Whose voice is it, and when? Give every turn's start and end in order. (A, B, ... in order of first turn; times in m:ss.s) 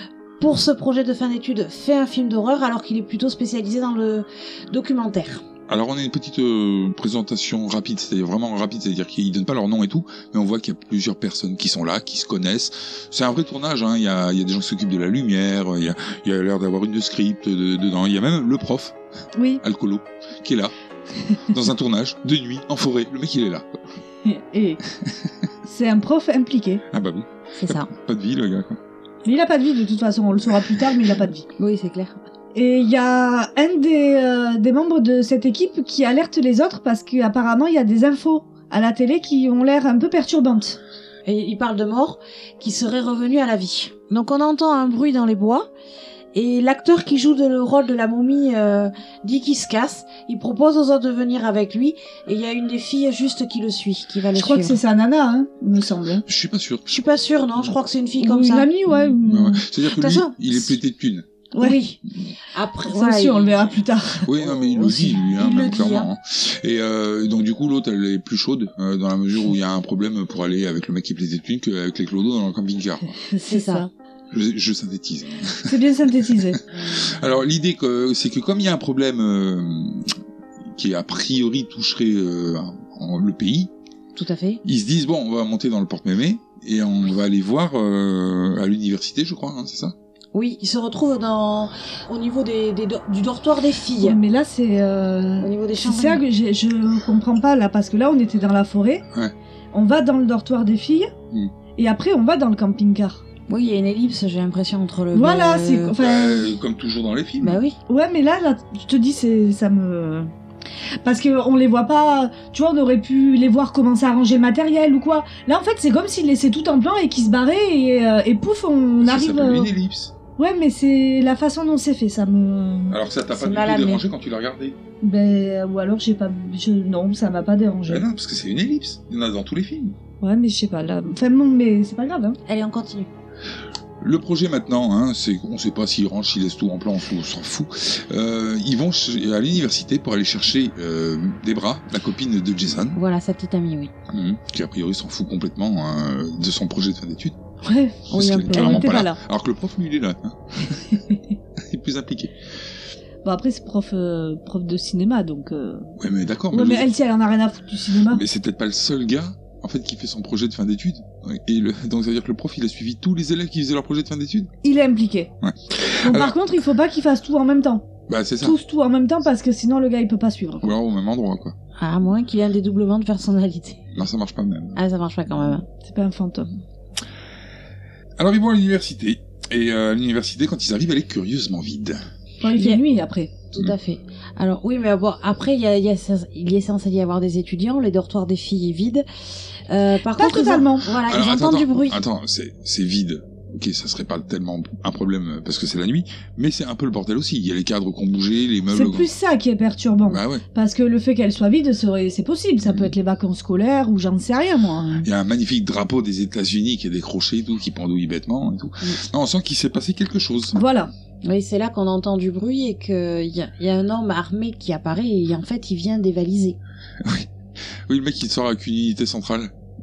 0:00.4-0:05.4 A
0:05.7-0:18.9 B
0:19.3-0:19.6 C
0:19.6-0:20.7 B
0:21.4-0:23.8 B
0:24.2-0:24.8 C
0:25.6-0:26.8 C
0:26.9-0:28.8 B
0:27.6-0:27.9 A
0:29.2-0:31.4 C
0:31.6-0:32.2 A
0:32.5-0:40.8 C
0:41.2-0:45.7 A
0:46.3-0:54.8 A
0:54.4-0:56.2 C
0:56.2-0:56.8 B
0:56.9-0:58.7 A
0:58.2-0:59.6 C
0:58.9-1:01.2 B
0:59.9-1:00.8 A
1:01.6-1:02.0 A
1:02.5-1:03.7 A
1:02.9-1:04.3 C
1:04.2-1:13.2 B
1:04.4-1:06.1 A
1:13.3-1:13.9 C
1:13.5-1:13.9 A
1:14.3-1:20.1 B
1:15.7-1:16.6 C
1:16.7-1:17.2 A
1:20.8-1:23.7 B
1:24.1-1:24.6 A
1:24.6-1:29.9 B
1:30.3-1:34.2 A
1:34.0-1:39.0 C
1:35.4-1:36.2 A
1:39.7-1:41.1 C
1:41.8-1:43.2 C
1:43.5-1:46.0 A
1:45.1-1:46.5 C
1:46.0-1:47.6 B
1:47.4-1:47.8 A
1:47.9-1:50.3 C
1:51.0-1:59.7 C
1:59.0-2:00.1 B
2:00.4-2:03.0 C
2:02.9-2:04.8 B
2:03.3-2:04.0 A
2:05.0-2:08.0 C
2:07.9-2:09.9 B
2:10.2-2:12.4 C
2:12.4-2:13.1 A
2:14.0-2:23.0 B
2:22.9-2:23.9 A
2:24.1-2:27.4 B
2:27.6-2:29.2 C
2:28.1-2:30.9 B
2:28.1-2:29.0 A
2:30.9-2:31.2 C
2:31.6-2:32.3 B
2:33.2-2:35.9 C
2:36.0-2:36.9 B
2:36.5-2:38.2 C
2:38.1-2:44.5 B
2:44.6-2:45.3 C
2:45.4-2:46.3 B
2:46.0-2:47.8 C
2:48.1-2:48.6 B
2:48.4-2:50.7 C
2:50.6-2:51.5 B
2:51.8-2:53.9 A
2:53.9-2:54.8 B
2:54.7-2:55.6 A
2:55.8-2:56.5 C
2:58.2-3:02.0 B
3:02.4-3:03.3 C
3:02.5-3:02.8 A
3:03.5-3:09.0 A
3:09.7-3:12.0 A
3:10.2-3:10.8 C
3:10.9-3:19.1 B
3:18.7-3:25.1 C
3:20.1-3:20.4 B
3:22.6-3:22.9 B
3:25.0-3:30.6 B
3:30.5-3:30.9 C
3:31.2-3:36.6 A
3:37.0-3:37.3 B
3:37.9-3:39.5 B